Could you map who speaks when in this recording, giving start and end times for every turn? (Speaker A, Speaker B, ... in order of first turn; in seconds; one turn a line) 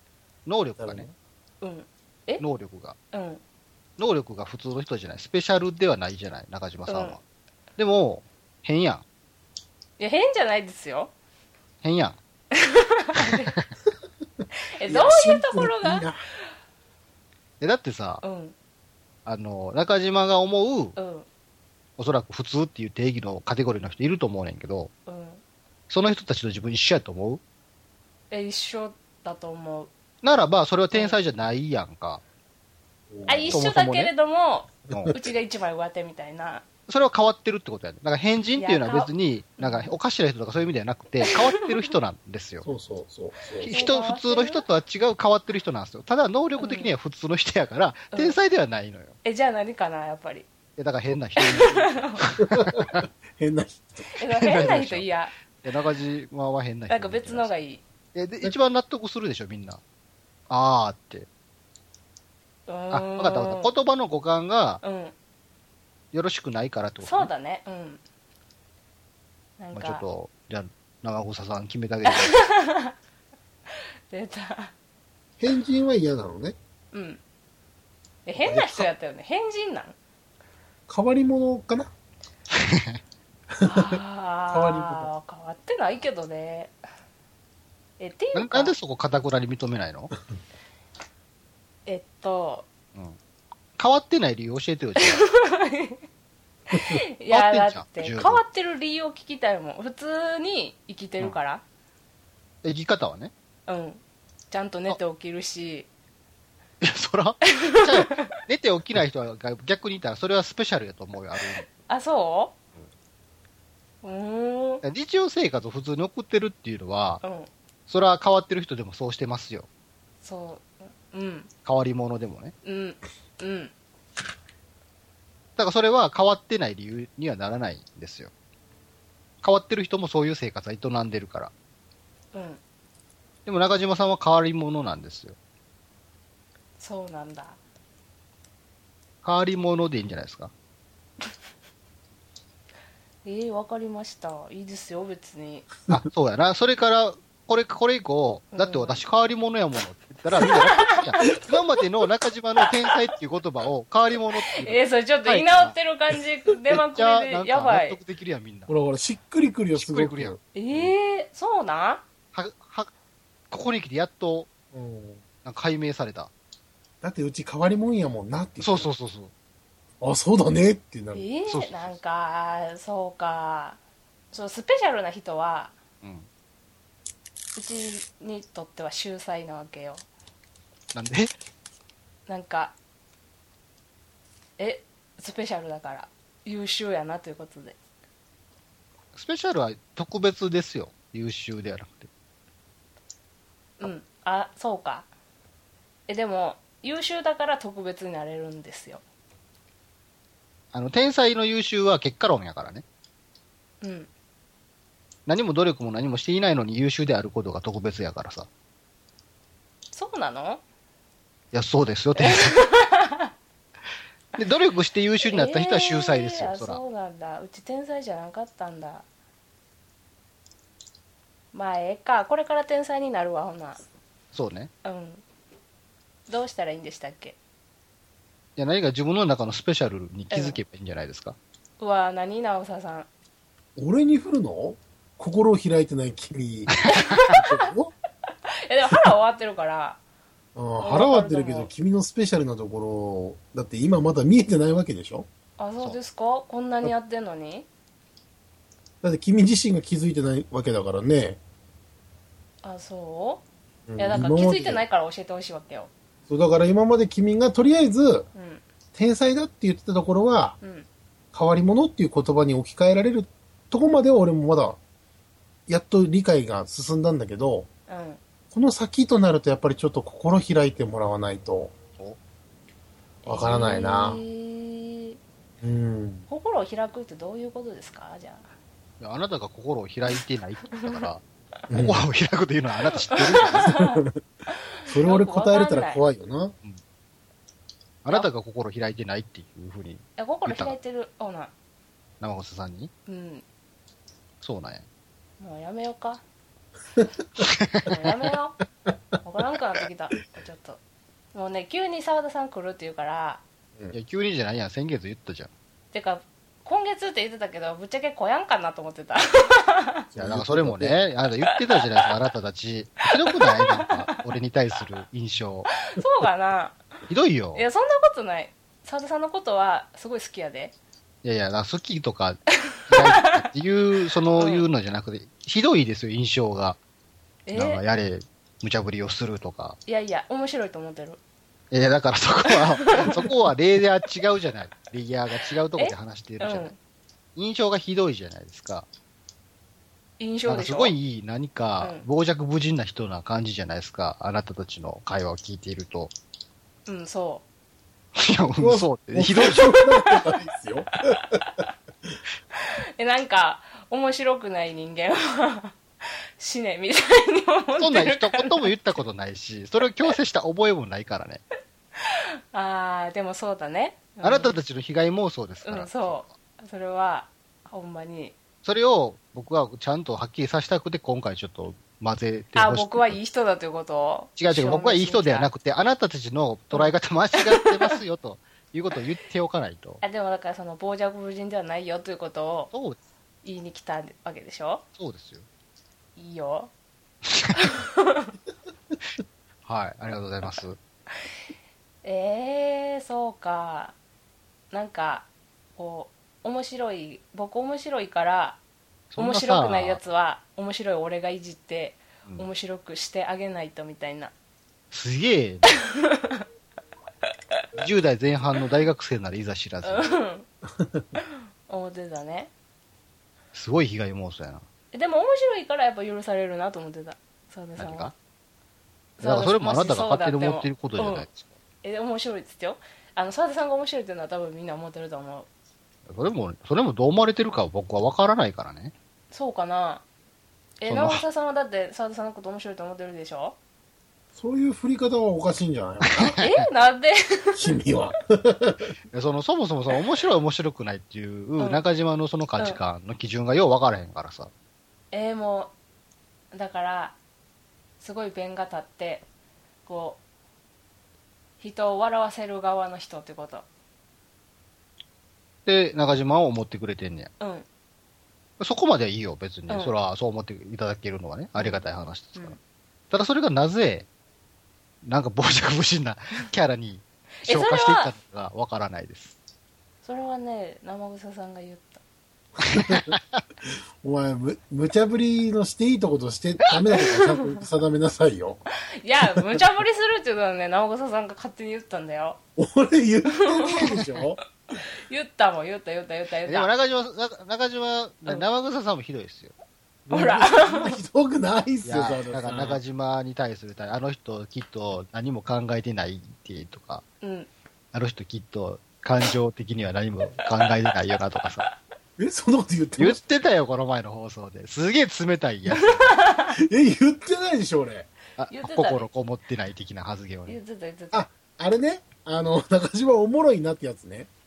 Speaker A: 0.5-1.1
Speaker B: 0.8-1.1
Speaker C: 1.6-2.4
Speaker A: 2.4-3.0
Speaker C: 3.1-3.4
Speaker A: 4.0-7.2
Speaker C: 6.9-7.2
Speaker A: 7.8-9.1
Speaker C: 10.0-11.1
Speaker A: 11.8-12.2
Speaker C: 12.6-13.6
Speaker C: 14.7-16.1
Speaker B: 14.9-16.2
Speaker A: 17.6-18.2
Speaker C: 18.2-18.6
Speaker A: 19.3-21.0
Speaker C: 21.0-21.3
Speaker A: 22.0-24.9
Speaker C: 25.1-25.4
Speaker A: 25.9-27.4
Speaker C: 28.3-29.9
Speaker A: 30.2-32.2
Speaker C: 30.9-31.2
Speaker B: 33.1-33.6
Speaker C: 33.3-36.6
Speaker A: 33.5-34.1
Speaker A: 34.9-35.2
Speaker A: 36.9-42.7
Speaker C: 38.6-39.9
Speaker C: 41.3-41.9
Speaker B: 42.6-43.7
Speaker A: 43.6-49.2
Speaker C: 43.7-44.6
Speaker C: 46.6-46.9
Speaker C: 49.2-50.5
Speaker A: 50.8-53.0
Speaker C: 51.4-52.2
Speaker B: 52.4-54.1
Speaker C: 54.2-55.3
Speaker A: 54.3-55.1
Speaker A: 55.6-57.5
Speaker C: 56.9-57.8
Speaker A: 58.1-59.8
Speaker A: 60.5-61.3
Speaker C: 62.7-63.7
Speaker A: 62.9-64.8
Speaker C: 64.8-65.1
Speaker A: 66.1-67.3
Speaker C: 67.0-68.0
Speaker C: 69.6-70.0
Speaker A: 69.7-72.4
Speaker C: 72.0-72.9
Speaker C: 74.1-74.7
Speaker B: 75.4-76.6
Speaker C: 76.9-77.2
Speaker C: 78.2-80.0
Speaker B: 78.4-78.9
Speaker B: 80.9-81.9
Speaker A: 82.5-83.0
Speaker C: 83.6-86.8
Speaker B: 83.7-84.0
Speaker B: 84.5-85.1
Speaker C: 88.0-88.7
Speaker A: 88.3-90.1
Speaker C: 91.9-92.7
Speaker A: 93.8-95.3
Speaker C: 95.0-96.0
Speaker C: 96.7-101.6
Speaker A: 97.3-98.4
Speaker A: 102.6-103.3
Speaker C: 103.7-105.9
Speaker A: 106.8-111.7
Speaker C: 107.5-108.3
Speaker C: 111.7-112.6
Speaker C: 114.0-114.8
Speaker A: 114.8-117.2
Speaker C: 117.2-117.5
Speaker A: 117.9-119.7
Speaker C: 120.2-121.5
Speaker A: 121.7-122.5
Speaker C: 122.6-123.7
Speaker A: 125.6-128.3
Speaker A: 129.4-131.5
Speaker C: 132.3-132.6
Speaker A: 133.5-135.4
Speaker C: 136.8-137.6
Speaker A: 139.2-140.5
Speaker C: 143.2-145.7
Speaker A: 145.9-155.7
Speaker C: 148.5-149.0
Speaker C: 150.4-151.0
Speaker C: 154.6-158.0
Speaker A: 156.7-158.7
Speaker B: 158.7-160.9
Speaker A: 159.8-160.4
Speaker C: 160.6-162.0
Speaker A: 162.3-162.9
Speaker A: 163.5-164.5
Speaker B: 164.7-165.2
Speaker A: 165.4-166.3
Speaker B: 167.0-168.9
Speaker A: 168.6-169.3
Speaker B: 170.0-171.3
Speaker C: 171.2-173.8
Speaker A: 171.5-172.0
Speaker C: 174.3-175.8
Speaker A: 176.0-176.3
Speaker C: 177.6-180.1
Speaker A: 180.9-181.3
Speaker C: 182.3-182.8
Speaker C: 184.6-187.8
Speaker A: 189.2-192.1
Speaker C: 193.8-195.1
Speaker C: 196.1-199.0
Speaker A: 200.7-202.8
Speaker C: 203.8-204.1
Speaker A: 205.3-208.5
Speaker C: 209.9-210.6
Speaker A: 211.5-212.6
Speaker C: 212.2-213.3
Speaker A: 214.4-216.8
Speaker C: 215.3-219.1
Speaker C: 221.5-223.8
Speaker A: 224.3-224.7
Speaker C: 224.8-225.2
Speaker C: 226.3-227.4
Speaker A: 228.6-231.4
Speaker C: 230.3-230.6
Speaker C: 231.8-233.1
Speaker B: 233.8-236.8
Speaker A: 236.8-237.2
Speaker C: 236.9-237.5
Speaker B: 237.3-237.9
Speaker C: 238.6-240.0
Speaker B: 240.6-245.3
Speaker C: 240.8-241.7
Speaker C: 245.6-247.7
Speaker B: 249.0-251.4
Speaker C: 252.6-253.4
Speaker B: 253.9-254.8
Speaker C: 254.0-255.9
Speaker B: 256.3-258.3
Speaker C: 258.4-258.6
Speaker B: 258.9-260.6
Speaker C: 260.6-260.9
Speaker B: 261.3-264.8
Speaker B: 265.7-267.7
Speaker C: 267.9-268.2
Speaker B: 268.5-271.7
Speaker C: 273.2-275.2
Speaker B: 273.3-274.2
Speaker B: 275.6-276.3
Speaker C: 276.3-278.5
Speaker A: 279.0-283.8
Speaker C: 280.7-281.1
Speaker B: 281.7-282.0
Speaker C: 282.9-286.0
Speaker B: 283.6-284.2
Speaker B: 284.9-286.6
Speaker A: 288.0-290.8
Speaker C: 290.2-291.5
Speaker A: 292.2-292.9
Speaker C: 293.1-293.4
Speaker A: 294.4-294.9
Speaker C: 295.4-296.2
Speaker A: 297.4-297.9
Speaker C: 297.8-298.6
Speaker C: 299.2-300.8
Speaker C: 301.3-303.4
Speaker A: 303.9-305.5
Speaker C: 305.9-310.1
Speaker B: 310.1-311.0
Speaker A: 310.2-315.7
Speaker C: 313.3-314.1
Speaker C: 315.8-316.8
Speaker A: 317.1-317.7
Speaker C: 317.6-320.7
Speaker A: 321.2-326.8
Speaker C: 322.7-323.4
Speaker C: 324.4-324.7
Speaker C: 327.5-327.8
Speaker A: 327.5-329.8
Speaker C: 329.9-331.2
Speaker A: 331.7-336.7
Speaker C: 332.5-333.3
Speaker C: 335.8-336.8
Speaker A: 337.4-338.9
Speaker C: 340.2-340.9
Speaker A: 340.5-346.1
Speaker C: 346.9-347.4
Speaker A: 348.2-349.8
Speaker B: 348.6-351.0
Speaker C: 351.4-351.6
Speaker C: 353.0-355.8
Speaker C: 356.4-358.7
Speaker A: 357.8-361.4
Speaker C: 362.0-364.6
Speaker A: 364.2-366.3
Speaker C: 365.6-368.4
Speaker A: 368.6-373.2
Speaker C: 372.6-375.5
Speaker A: 374.4-380.0
Speaker C: 376.7-377.9
Speaker C: 380.0-382.7
Speaker A: 382.7-383.0
Speaker C: 383.4-384.9
Speaker A: 385.0-385.5
Speaker C: 386.2-386.7
Speaker A: 387.3-387.6
Speaker C: 387.6-388.3
Speaker A: 389.7-390.8
Speaker C: 392.0-394.0
Speaker C: 394.7-398.6
Speaker A: 399.1-400.0
Speaker C: 399.2-404.3
Speaker A: 404.9-405.7
Speaker C: 405.8-406.4
Speaker A: 407.8-410.1
Speaker C: 409.8-410.5
Speaker C: 411.2-412.5
Speaker A: 413.5-414.6
Speaker C: 414.9-418.1
Speaker A: 417.8-418.1
Speaker C: 419.2-421.3
Speaker A: 419.2-421.5
Speaker C: 421.8-425.5
Speaker A: 426.1-428.9
Speaker C: 429.3-430.0
Speaker C: 430.8-433.6
Speaker A: 430.9-431.2
Speaker B: 434.4-436.4
Speaker A: 436.1-436.6
Speaker C: 436.3-437.7
Speaker B: 437.6-438.9
Speaker A: 439.1-444.5
Speaker C: 445.1-445.7
Speaker C: 446.5-447.2
Speaker C: 448.0-449.2
Speaker C: 449.9-450.2
Speaker C: 451.6-453.7
Speaker A: 455.7-457.3
Speaker C: 457.4-457.7
Speaker A: 458.6-462.6
Speaker C: 461.6-461.8
Speaker A: 463.1-464.1
Speaker A: 465.0-469.4
Speaker C: 467.4-468.1
Speaker C: 470.0-472.0
Speaker B: 472.6-473.1
Speaker A: 472.6-473.4
Speaker B: 474.0-478.6
Speaker C: 477.0-477.6
Speaker C: 479.0-482.4
Speaker B: 482.6-484.4
Speaker C: 483.3-484.0
Speaker C: 484.8-486.7
Speaker A: 486.5-489.5
Speaker B: 490.1-492.8
Speaker C: 490.1-491.0
Speaker A: 491.8-497.1
Speaker C: 497.2-497.5
Speaker A: 497.9-501.7
Speaker B: 502.2-503.2
Speaker A: 503.0-506.2
Speaker C: 506.0-506.5
Speaker B: 506.5-508.1
Speaker A: 508.4-510.6
Speaker C: 508.5-509.1
Speaker C: 510.5-511.3
Speaker B: 511.1-514.3